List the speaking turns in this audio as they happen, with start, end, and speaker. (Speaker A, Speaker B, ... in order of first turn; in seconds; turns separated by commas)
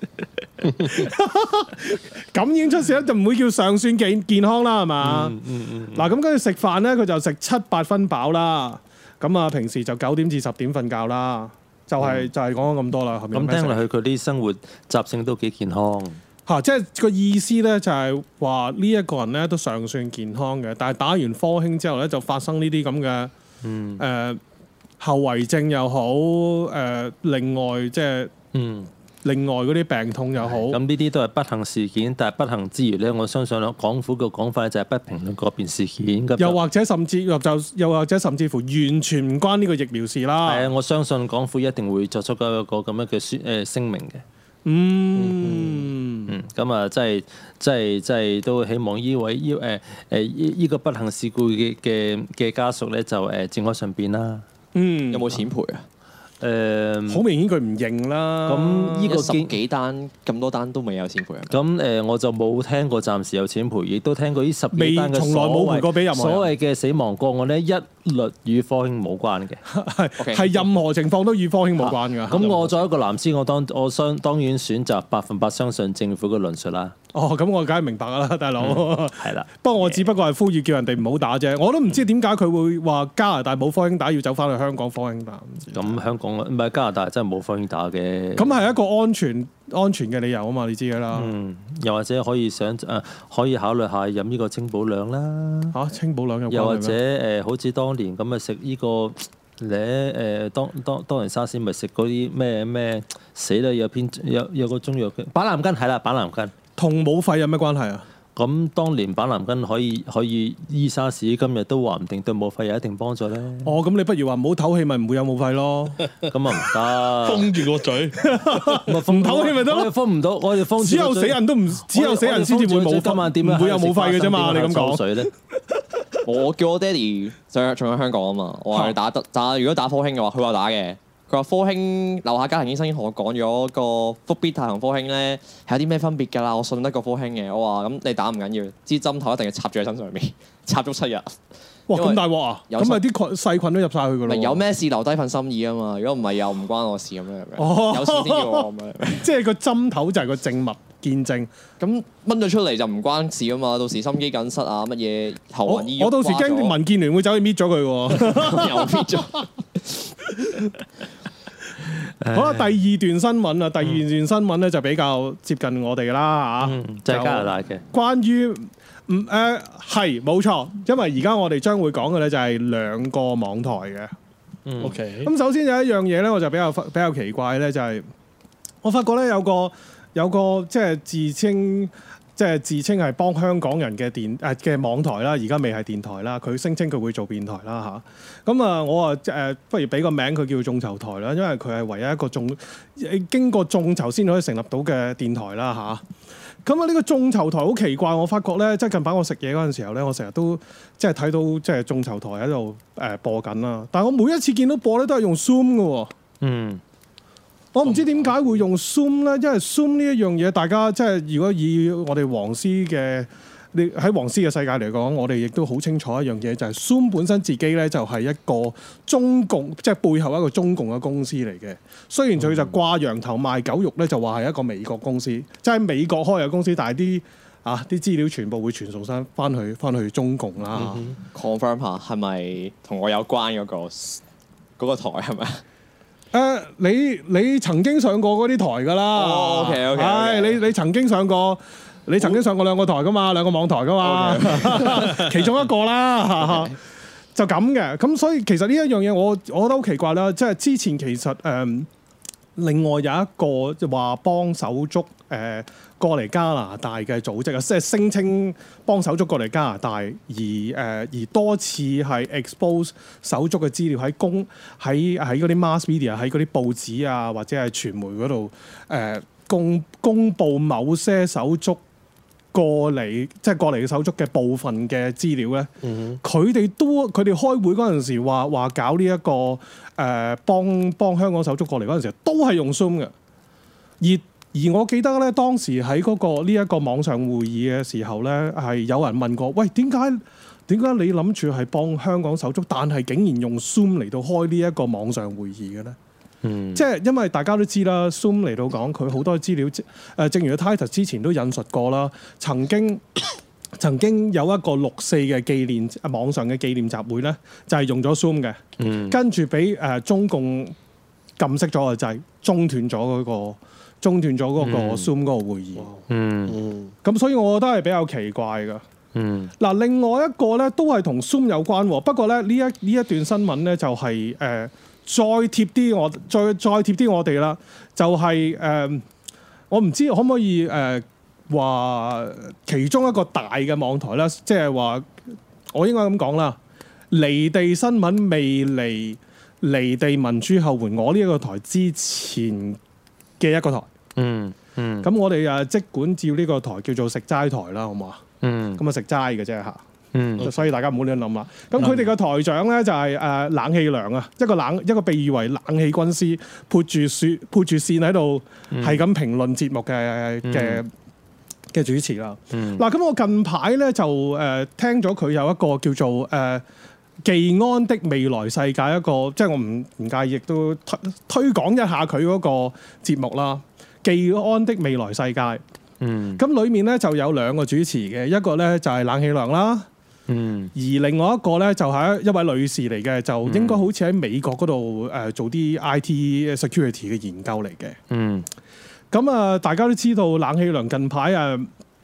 Speaker A: 0.8-5.3, Speaker B: 5.0-6.1, Speaker A: 5.9-13.8, Speaker B: 12.0-12.3, Speaker B: 13.3-16.2, Speaker A: 16.4-23.3, Speaker B: 23.6-24.0, Speaker A: 24.0-24.4, Speaker A: 25.0-28.3, Speaker B: 28.5-28.9, Speaker A: 29.2-30.8, Speaker B: 30.4-36.6, Speaker A: 36.4-40.7, Speaker B: 40.4-44.2, Speaker A: 44.6-46.3, Speaker C: 45.2-45.8, Speaker B: 46.3-54.4, Speaker A: 54.7-55.4, Speaker D: 55.1-55.8, Speaker B: 56.4-57.2, Speaker A: 57.1-59.3, Speaker B: 58.5-59.5, Speaker D: 59.1-61.5, Speaker B: 61.5-69.6, Speaker A: 64.7-66.5, Speaker A: 69.7-72.8, Speaker D: 70.2-70.5, Speaker B: 71.8-76.9, Speaker A: 77.1-86.0, Speaker B: 78.6-80.0, Speaker B: 85.7-88.5, Speaker A: 88.4-91.3, Speaker B: 91.1-95.8, Speaker A: 95.7-97.0, Speaker B: 96.5-106.5, Speaker A: 106.8-108.0, Speaker B: 108.3-113.7, Speaker A: 113.6-116.0, Speaker B: 116.3-117.5, Speaker C: 117.2-118.7, Speaker A: 118.3-119.9, Speaker B: 118.8-125.3, Speaker A: 120.8-125.3, Speaker D: 126.2-141.4, Speaker A: 128.7-129.0, Speaker D: 141.9-143.0, Speaker A: 141.9-144.6, Speaker D: 144.3-149.3, Speaker A: 147.6-151.5, Speaker D: 151.8-156.8, Speaker A: 155.7-159.4, Speaker D: 158.1-160.7, Speaker B: 162.2-162.7, Speaker A: 162.3-174.1, Speaker B: 166.6-167.8, Speaker B: 174.7-174.9, Speaker C: 174.8-175.3, Speaker A: 175.2-178.1, Speaker A: 178.8-196.0, Speaker A: 196.6-206.1, Speaker B: 206.4-206.8, Speaker A: 207.7-231.1, Speaker C: 207.8-208.3, Speaker C: 230.7-231.2, Speaker D: 231.3-234.2, Speaker D: 234.8-235.6, Speaker A: 236.3-246.8, Speaker D: 239.1-240.6, Speaker D: 244.0-245.2, Speaker D: 246.4-246.7, Speaker A: 247.3-251.9, Speaker A: 252.6-271.8, Speaker A: 272.5-275.7, Speaker C: 275.8-276.2, Speaker A: 276.2-283.1, Speaker A: 284.0-296.0, Speaker B: 296.4-296.9, Speaker A: 296.7-303.2, Speaker A: 303.8-310.7, Speaker B: 308.8-309.2, Speaker A: 311.4-315.9, Speaker B: 314.6-315.1, Speaker C: 315.8-316.9, Speaker B: 316.1-316.6, Speaker A: 317.0-318.8, Speaker B: 319.1-319.5, Speaker A: 319.6-329.0, Speaker A: 329.7-335.1, Speaker A: 335.7-336.6, Speaker A: 337.1-342.8, Speaker A: 343.4-343.9, Speaker B: 344.1-345.1, Speaker A: 345.0-348.2, Speaker B: 348.4-348.8, Speaker A: 348.8-349.8, Speaker B: 350.1-350.5, Speaker A: 350.4-360.9, Speaker B: 358.7-359.0, Speaker B: 360.4-360.8, Speaker A: 361.7-366.6, Speaker B: 362.5-362.8, Speaker A: 367.2-375.6, Speaker B: 376.0-376.4, Speaker A: 376.4-379.9, Speaker B: 380.3-380.7, Speaker A: 380.7-388.0, Speaker B: 383.4-383.9, Speaker B: 388.1-388.5, Speaker A: 389.1-391.7